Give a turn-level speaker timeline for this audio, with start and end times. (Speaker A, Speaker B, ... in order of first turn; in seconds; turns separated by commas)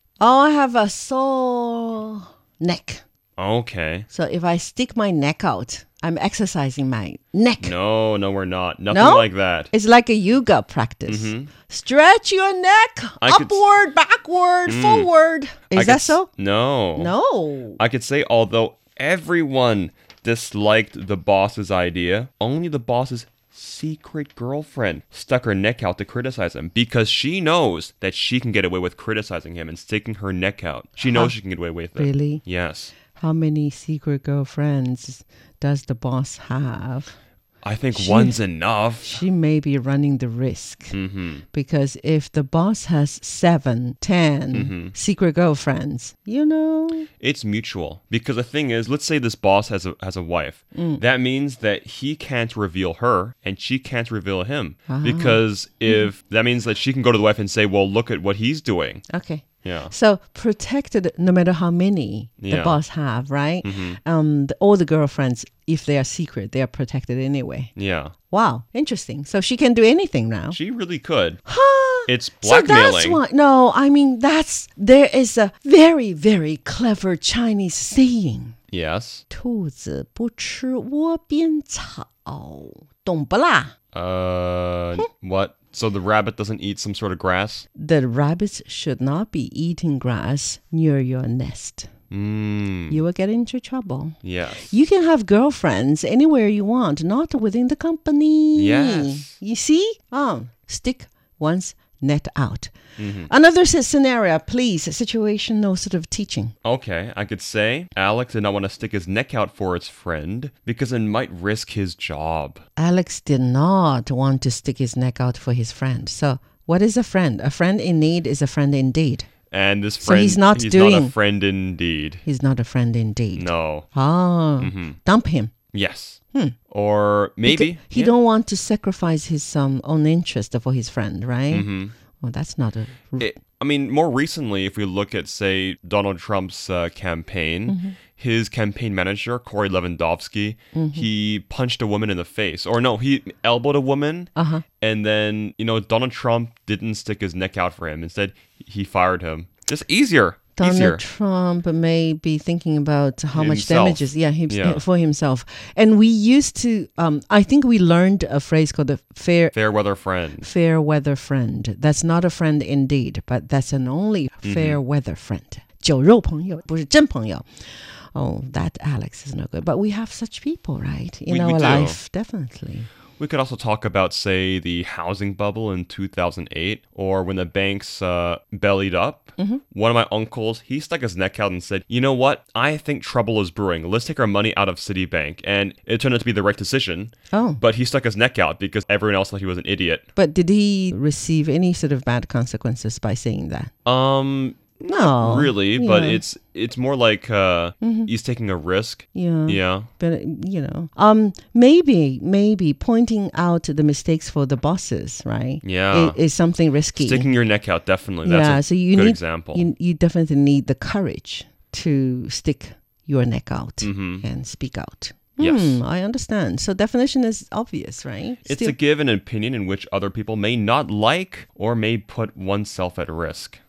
Speaker A: 0.2-3.0, Speaker B: 3.4-4.1, Speaker A: 4.1-7.7, Speaker B: 7.6-9.7, Speaker A: 8.9-16.3, Speaker B: 11.1-11.5, Speaker B: 13.2-13.6, Speaker B: 14.7-15.1, Speaker B: 15.7-17.1, Speaker A: 17.0-17.8, Speaker B: 17.8-32.9, Speaker A: 31.0-31.3, Speaker A: 31.9-32.4, Speaker A: 33.1-37.1, Speaker B: 37.6-39.2, Speaker A: 37.9-38.4, Speaker A: 39.0-41.0, Speaker B: 40.9-41.4, Speaker A: 41.5-47.1, Speaker B: 44.5-44.9, Speaker B: 47.2-59.0, Speaker A: 50.7-51.0, Speaker A: 54.9-56.1, Speaker A: 59.1-67.7, Speaker B: 59.6-59.9, Speaker B: 62.4-62.8, Speaker B: 63.6-64.0, Speaker B: 67.8-68.1, Speaker A: 68.3-70.6, Speaker B: 70.5-71.4, Speaker A: 71.5-78.5, Speaker B: 72.1-73.2, Speaker B: 78.7-79.2, Speaker A: 79.3-83.7, Speaker B: 83.9-87.7, Speaker A: 87.8-91.9, Speaker B: 92.1-93.0, Speaker A: 92.9-102.7, Speaker B: 94.2-94.7, Speaker B: 98.5-99.3, Speaker B: 103.0-103.3, Speaker A: 103.3-106.5, Speaker B: 106.6-112.6, Speaker A: 112.8-119.3, Speaker B: 119.5-122.2, Speaker A: 120.0-121.1, Speaker A: 122.2-125.5, Speaker B: 123.3-123.9, Speaker B: 124.6-125.0, Speaker B: 125.7-128.1, Speaker A: 127.5-131.7, Speaker B: 131.5-131.9, Speaker A: 132.2-133.3, Speaker B: 133.2-151.0, Speaker A: 137.7-138.0, Speaker A: 140.7-141.1, Speaker A: 144.3-144.6, Speaker A: 150.6-159.5, Speaker B: 153.3-154.8, Speaker B: 159.5-160.5, Speaker A: 160.4-172.9, Speaker B: 164.4-164.8, Speaker B: 171.3-172.0, Speaker B: 173.2-190.0, Speaker A: 187.3-187.6, Speaker A: 190.2-193.7, Speaker B: 193.8-199.9, Speaker A: 194.9-196.2, Speaker A: 197.8-198.1, Speaker A: 199.1-207.3, Speaker B: 205.6-206.2, Speaker B: 206.9-209.7, Speaker A: 208.2-218.7, Speaker B: 213.8-214.2, Speaker B: 215.4-215.8, Speaker B: 218.4-223.6